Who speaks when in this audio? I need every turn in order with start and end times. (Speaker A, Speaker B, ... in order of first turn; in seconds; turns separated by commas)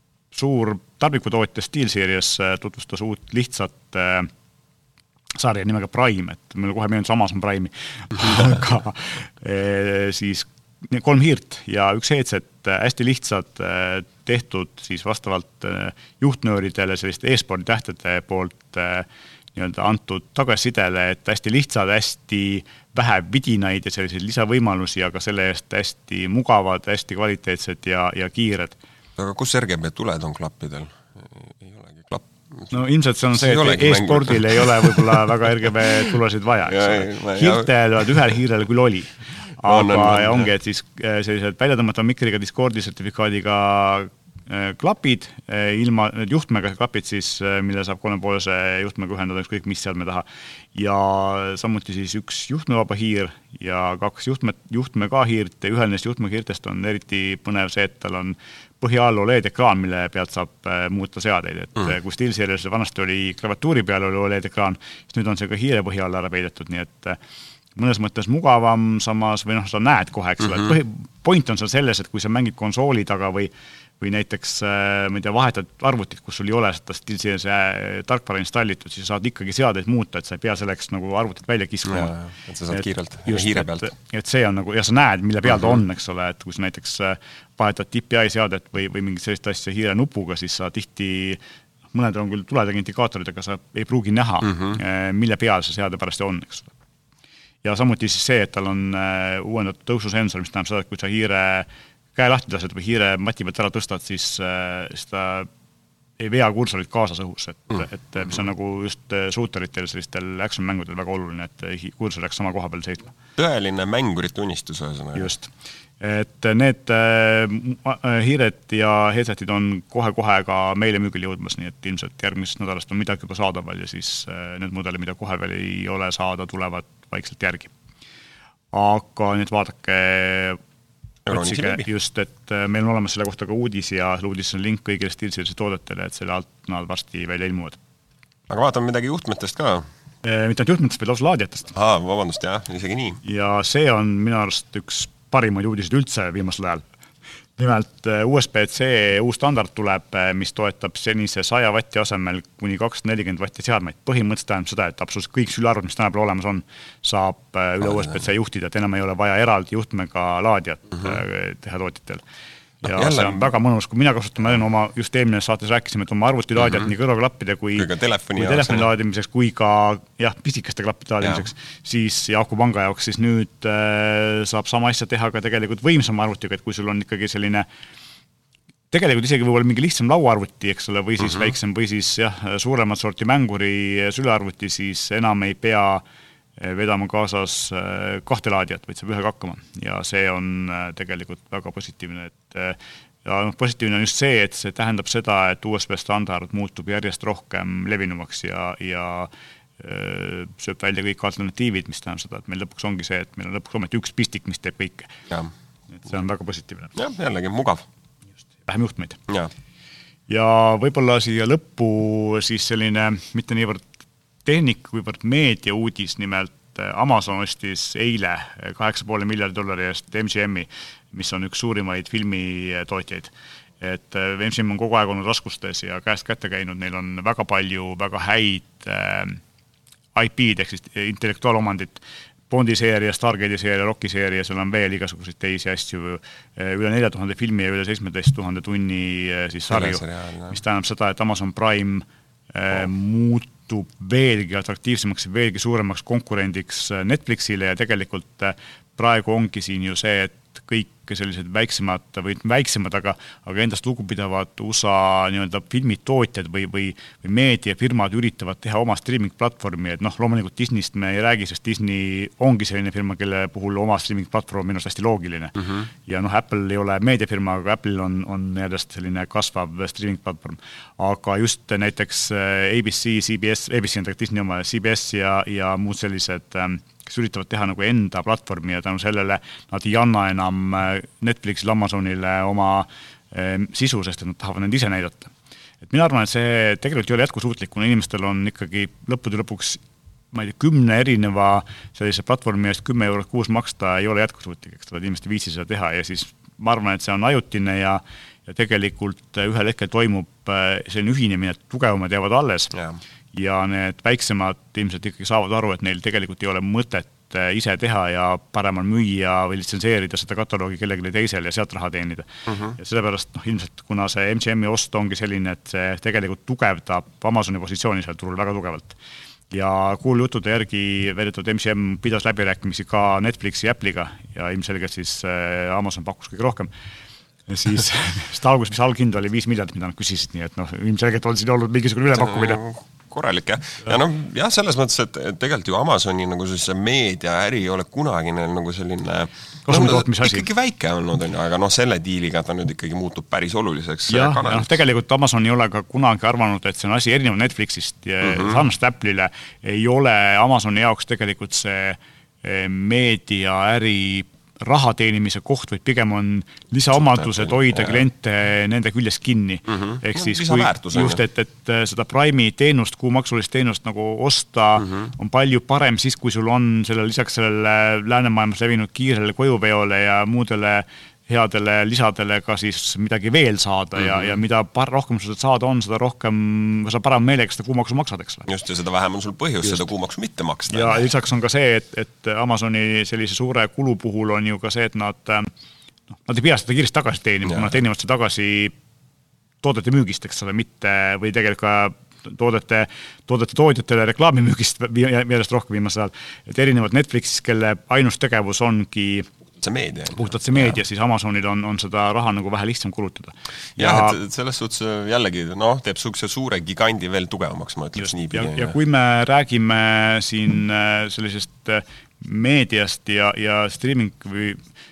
Speaker A: 0.3-4.3, Speaker A: 5.4-28.8, Speaker B: 29.2-32.7, Speaker A: 32.7-67.2, Speaker B: 33.3-35.5, Speaker B: 36.7-38.1, Speaker B: 39.6-40.5, Speaker A: 67.8-82.2, Speaker B: 81.9-83.9, Speaker A: 82.7-91.4, Speaker A: 91.9-96.7, Speaker B: 94.5-94.8, Speaker A: 97.6-105.5, Speaker A: 106.2-113.1, Speaker B: 113.4-115.3, Speaker A: 115.2-127.7, Speaker A: 128.7-130.6, Speaker B: 131.3-131.9, Speaker A: 131.3-137.8, Speaker B: 138.5-139.9, Speaker A: 140.2-141.7, Speaker B: 141.7-143.2, Speaker A: 143.2-146.8, Speaker A: 147.6-162.2, Speaker A: 162.8-177.7, Speaker B: 162.8-163.5, Speaker B: 167.8-168.9, Speaker A: 178.9-186.0, Speaker A: 186.6-205.2, Speaker A: 206.0-206.9, Speaker B: 207.0-207.8, Speaker A: 208.7-209.2, Speaker A: 210.3-213.9, Speaker A: 214.4-229.4, Speaker A: 230.2-285.3, Speaker B: 239.7-240.6, Speaker A: 285.8-289.8, Speaker A: 290.3-302.7, Speaker B: 302.7-303.0, Speaker A: 303.3-319.0, Speaker B: 312.5-312.8, Speaker A: 319.5-326.7, Speaker A: 327.5-332.6, Speaker B: 332.1-344.7, Speaker A: 339.7-340.5, Speaker A: 344.1-378.5, Speaker B: 348.2-348.6, Speaker B: 357.0-358.0, Speaker B: 359.7-361.2, Speaker B: 374.0-374.3, Speaker B: 378.5-381.1, Speaker A: 380.7-385.5, Speaker A: 386.3-388.7, Speaker A: 389.6-399.3, Speaker B: 399.6-400.7, Speaker A: 400.1-404.2, Speaker B: 403.8-408.8, Speaker A: 408.0-414.6